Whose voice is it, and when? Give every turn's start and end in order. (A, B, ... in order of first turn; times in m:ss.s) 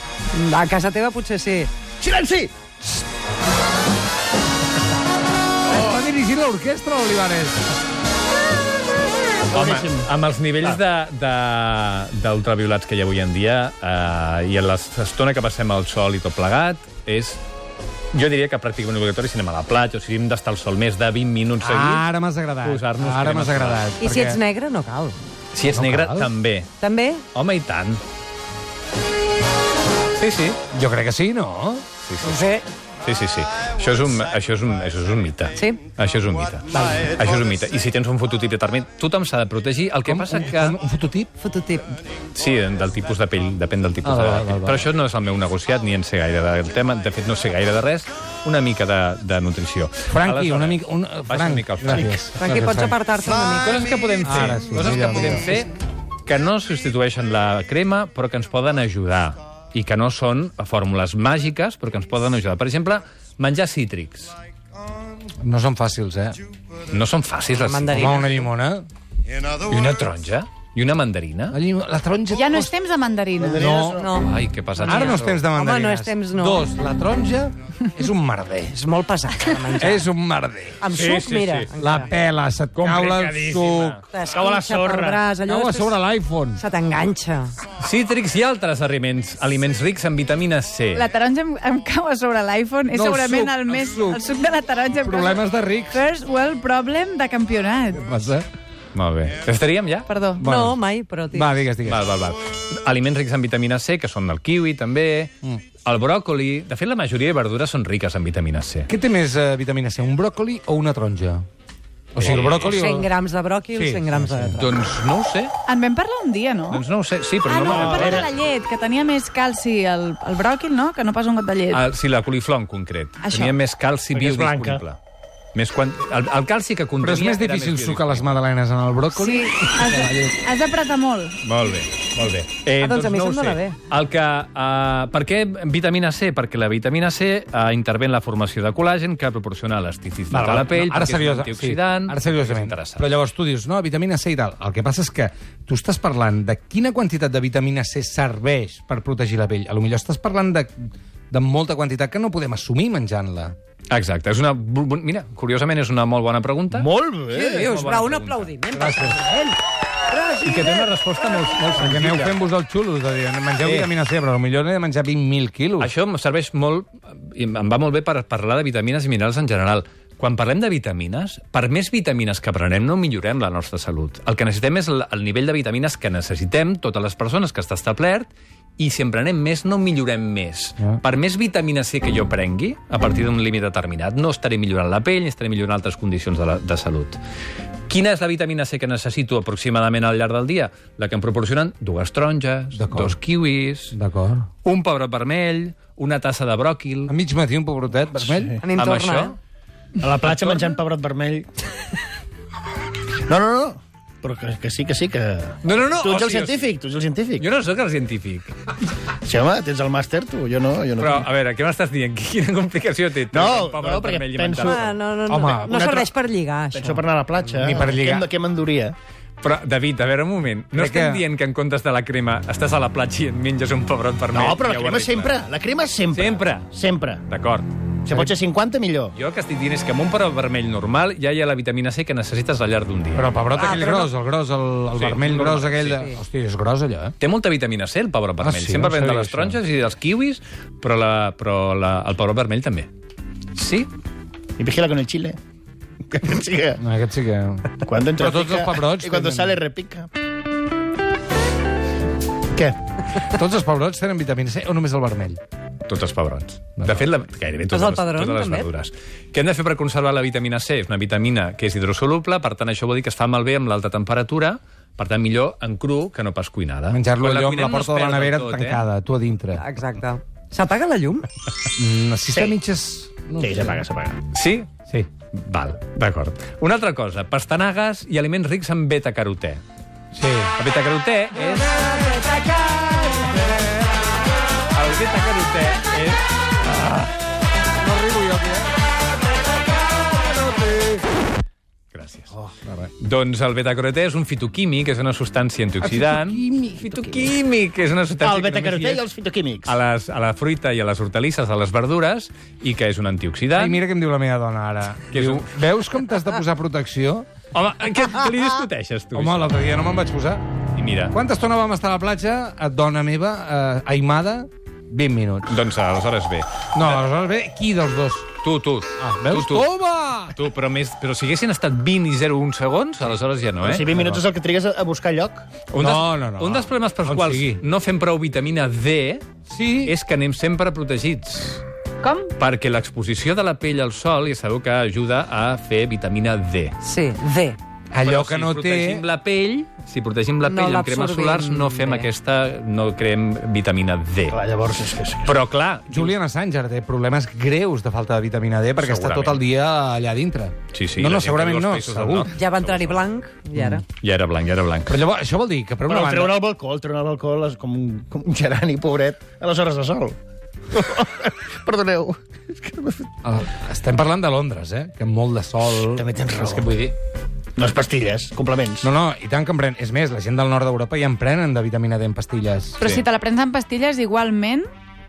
0:00.3-0:01.7 A
0:02.0-0:02.5 B
0:05.7-0:07.6 C
0:09.5-0:10.1 B
0:09.5-0:17.4 D
0:18.1-0:22.0 D
0:21.6-0:24.4 C
0:22.6-0:24.0 D
0:24.0-0:25.2 A
0:25.5-0:26.7 D
0:25.7-0:26.3 C
0:26.8-0:27.2 A
0:27.3-0:28.0 D
0:30.2-0:30.6 D
0:30.7-0:31.8 C
0:32.0-0:32.4 D
0:32.2-0:32.6 A
0:33.0-0:40.8 D
0:35.5-0:35.8 A
0:36.7-0:37.1 A
0:40.0-0:41.3 C
0:41.4-0:41.9 A
0:42.3-0:52.3 D
0:44.0-0:44.8 C
0:50.1-0:53.0 C
0:52.0-0:53.9 A
0:53.6-0:55.7 D
0:54.2-0:55.5 C
0:56.2-1:04.3 D
1:05.4-1:06.4 C
1:06.9-1:08.3 D
1:07.6-1:08.4 A
1:07.9-1:08.9 C
1:09.6-1:11.6 D
1:11.5-1:12.7 C
1:12.3-1:13.7 E
1:13.4-1:14.3 B
1:13.6-1:14.0 C
1:14.0-1:16.7 A
1:14.2-1:15.4 D
1:14.8-1:18.8 C
1:18.7-1:20.1 A
1:19.8-1:20.8 C
1:20.8-1:22.1 A
1:20.9-1:21.7 D
1:21.8-1:24.0 C
1:22.7-1:24.1 D
1:24.1-1:26.0 A
1:24.3-1:25.2 B
1:25.5-1:26.6 C
1:26.5-1:27.5 A
1:27.8-1:31.1 D
1:30.9-1:38.1 E
1:32.9-1:34.2 C
1:35.0-1:36.0 C
1:38.0-1:38.4 C
1:38.9-1:40.1 D
1:40.1-1:40.4 E
1:40.4-1:42.0 C
1:40.4-1:41.7 A
1:41.8-1:45.3 D
1:45.8-1:48.9 D
1:48.9-1:51.4 C
1:52.1-1:53.1 C
1:52.2-1:52.8 D
1:52.6-1:54.8 A
1:53.7-1:54.8 C
1:54.6-1:55.5 D
1:55.6-1:56.8 E
1:56.7-1:58.3 D
1:57.4-2:01.8 E
1:57.7-1:58.2 C
2:01.7-2:05.0 D
2:03.2-2:03.6 E
2:04.1-2:04.8 B
2:05.5-2:08.4 D
2:07.0-2:10.3 C
2:09.2-2:11.4 E
2:11.4-2:23.1 D
2:12.8-2:13.8 A
2:20.3-2:33.5 C
2:33.9-2:36.9 D
2:36.7-2:37.7 B
2:37.3-2:39.6 A
2:37.6-2:38.5 D
2:38.7-2:39.2 C
2:40.1-2:40.9 A
2:40.4-2:42.4 D
2:41.7-2:45.9 C
2:43.6-2:43.9 D
2:45.8-3:07.2 D
3:07.9-3:13.9 D
3:12.7-3:13.2 C
3:13.9-3:14.5 C
3:14.6-3:17.1 D
3:17.1-3:18.5 C
3:18.2-3:18.6 B
3:18.6-3:19.4 A
3:18.8-3:19.3 D
3:20.0-3:21.5 B
3:20.2-3:20.8 D
3:23.2-3:27.5 B
3:25.6-3:26.7 D
3:27.4-3:28.5 D
3:29.2-3:31.3 B
3:31.0-3:34.9 D
3:33.3-3:34.9 B
3:34.6-3:37.0 A
3:35.3-3:35.8 C
3:35.7-3:36.1 B
3:36.7-3:39.0 B
3:37.5-3:38.3 C
3:39.4-3:45.4 D
3:40.7-3:41.2 C
3:44.3-3:47.2 B
3:46.1-3:46.7 D
3:47.2-3:47.7 D
3:48.0-3:49.1 B
3:49.1-3:53.8 D
3:53.1-3:57.1 C
3:53.6-3:54.1 A
3:54.9-3:56.1 D
3:57.2-4:02.9 D
3:58.4-3:59.6 C
4:03.5-4:03.9 D
4:04.6-4:05.4 B
4:06.1-4:06.8 B
4:06.8-4:09.6 C
4:07.8-4:10.1 B
4:13.3-4:15.4 C
4:15.9-4:28.8 D
4:16.8-4:17.1 C
4:17.7-4:18.7 A
4:26.9-4:29.6 C
4:29.5-4:31.3 A
4:31.7-4:33.8 C
4:32.3-4:32.6 B
4:33.4-4:34.2 B
4:34.3-4:34.7 D
4:35.3-4:39.6 D
4:40.1-4:40.5 C
4:40.6-4:41.7 D
4:41.4-4:43.8 C
4:44.7-4:46.2 D
4:47.8-4:48.7 C
4:50.0-4:51.0 C
4:51.9-4:52.3 D
4:52.3-4:52.9 C
4:53.0-4:59.0 D
4:55.8-4:57.3 C
4:58.2-4:59.8 B
4:59.6-5:03.8 D
5:03.6-5:07.3 C
5:05.1-5:05.5 D
5:07.5-5:09.6 D
5:09.1-5:10.4 C
5:10.7-5:11.1 D
5:11.1-5:15.5 C
5:15.5-5:17.0 D
5:16.7-5:18.3 C
5:18.4-5:19.7 D
5:19.0-5:20.4 C
5:20.3-5:23.9 D
5:23.6-5:25.4 B
5:23.9-5:24.2 C
5:25.7-5:29.2 D
5:25.8-5:27.6 C
5:29.5-5:29.9 C
5:29.8-5:31.6 D
5:32.0-5:32.3 E
5:32.3-5:36.7 D
5:36.8-5:37.6 A
5:37.9-5:39.0 C
5:38.0-5:44.4 D
5:40.4-5:42.1 A
5:44.3-5:45.4 B
5:45.2-5:46.1 D
5:45.9-5:52.3 C
5:48.8-5:49.4 D
5:50.7-5:53.1 D
5:52.3-5:53.8 A
5:53.5-5:53.8 C
5:53.9-5:55.0 D
5:54.9-5:56.4 C
5:55.8-6:00.2 B
6:00.7-6:03.1 B
6:03.2-6:06.9 C
6:05.9-6:06.7 B
6:07.6-6:08.9 B
6:08.8-6:12.8 C
6:12.8-6:14.7 E